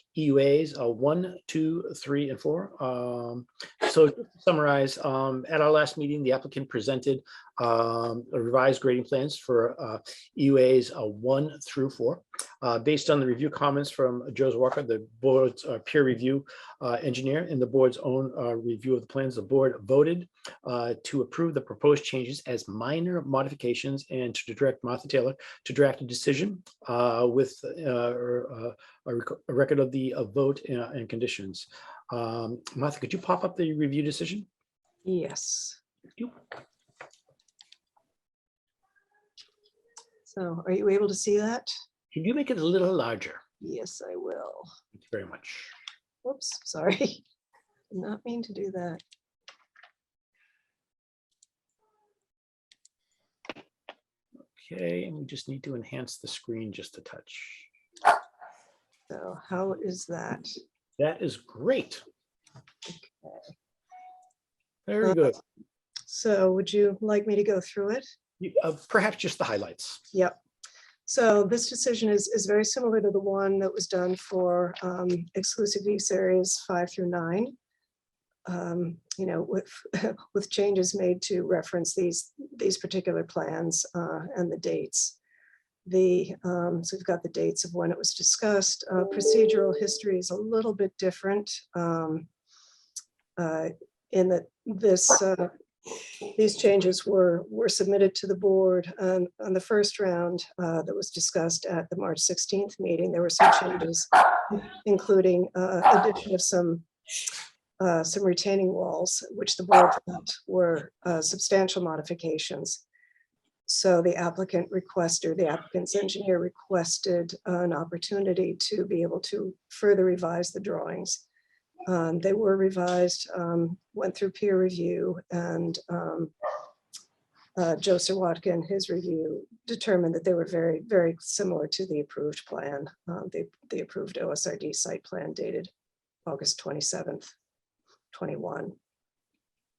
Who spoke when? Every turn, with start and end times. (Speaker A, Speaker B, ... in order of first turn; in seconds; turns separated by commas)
Speaker A: 0.1-34.5, Speaker B: 35.0-35.8, Speaker B: 40.3-41.7, Speaker A: 42.1-43.4, Speaker B: 43.6-44.7, Speaker A: 45.0-45.7, Speaker B: 46.2-47.2, Speaker B: 47.9-49.0, Speaker A: 54.6-57.7, Speaker B: 59.1-60.6, Speaker A: 61.0-62.0, Speaker B: 62.9-63.5, Speaker A: 64.9-65.4, Speaker B: 66.1-68.0, Speaker A: 68.4-70.0, Speaker B: 71.1-77.5, Speaker B: 78.5-85.2, Speaker B: 85.9-92.3, Speaker B: 93.4-95.5, Speaker B: 96.3-106.8, Speaker B: 107.8-112.8, Speaker B: 113.7-121.2, Speaker B: 121.9-126.3, Speaker B: 127.6-135.7, Speaker B: 136.3-137.3, Speaker B: 138.1-138.8